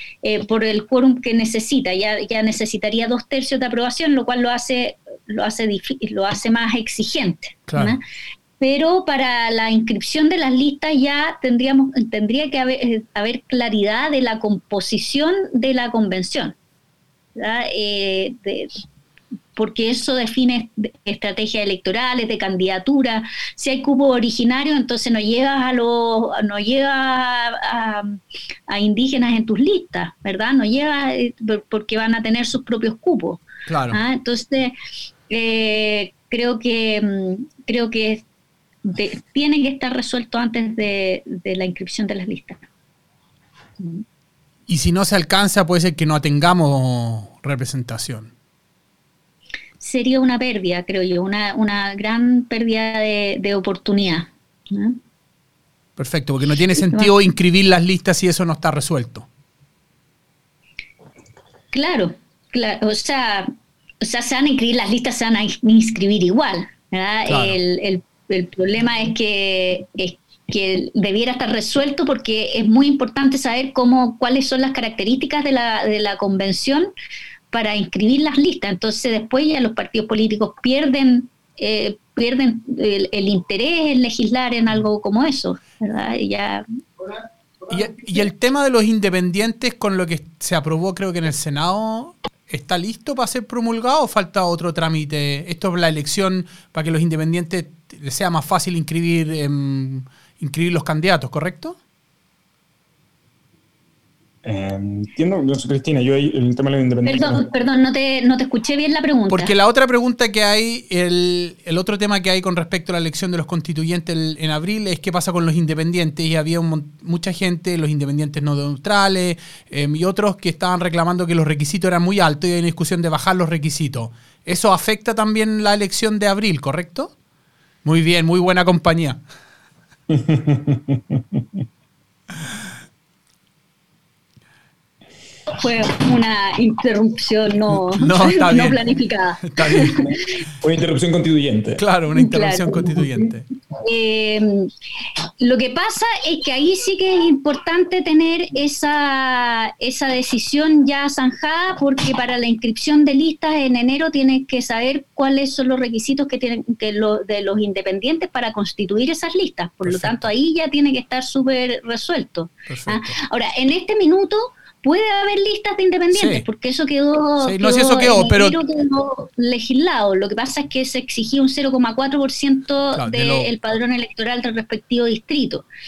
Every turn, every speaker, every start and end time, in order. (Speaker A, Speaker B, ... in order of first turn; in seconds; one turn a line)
Speaker A: 0.2-8.0
Speaker B: 7.7-8.0
Speaker A: 8.6-16.6
Speaker A: 17.4-18.7
Speaker A: 19.6-34.8
Speaker B: 33.7-34.0
Speaker A: 35.3-38.2
Speaker A: 38.9-42.6
Speaker B: 44.7-48.3
Speaker A: 49.8-55.0
Speaker B: 56.0-59.3
Speaker A: 56.8-57.1
Speaker A: 61.7-76.9
Speaker B: 67.3-67.6
Speaker A: 77.5-86.7
Speaker B: 87.7-101.8
Speaker C: 104.4-107.5
Speaker A: 107.0-109.5
Speaker B: 109.3-127.1
Speaker B: 127.8-129.2
Speaker C: 130.1-131.4
Speaker A: 135.6-140.2
Speaker B: 137.9-138.8
Speaker B: 139.4-140.1
Speaker C: 140.6-141.8
Speaker B: 141.8-143.4
Speaker A: 142.1-143.0
Speaker A: 143.8-144.7
Speaker A: 145.4-175.7
Speaker B: 159.8-160.3
Speaker B: 162.7-163.2
Speaker B: 166.1-166.4
Speaker B: 167.4-168.6
Speaker B: 173.0-173.5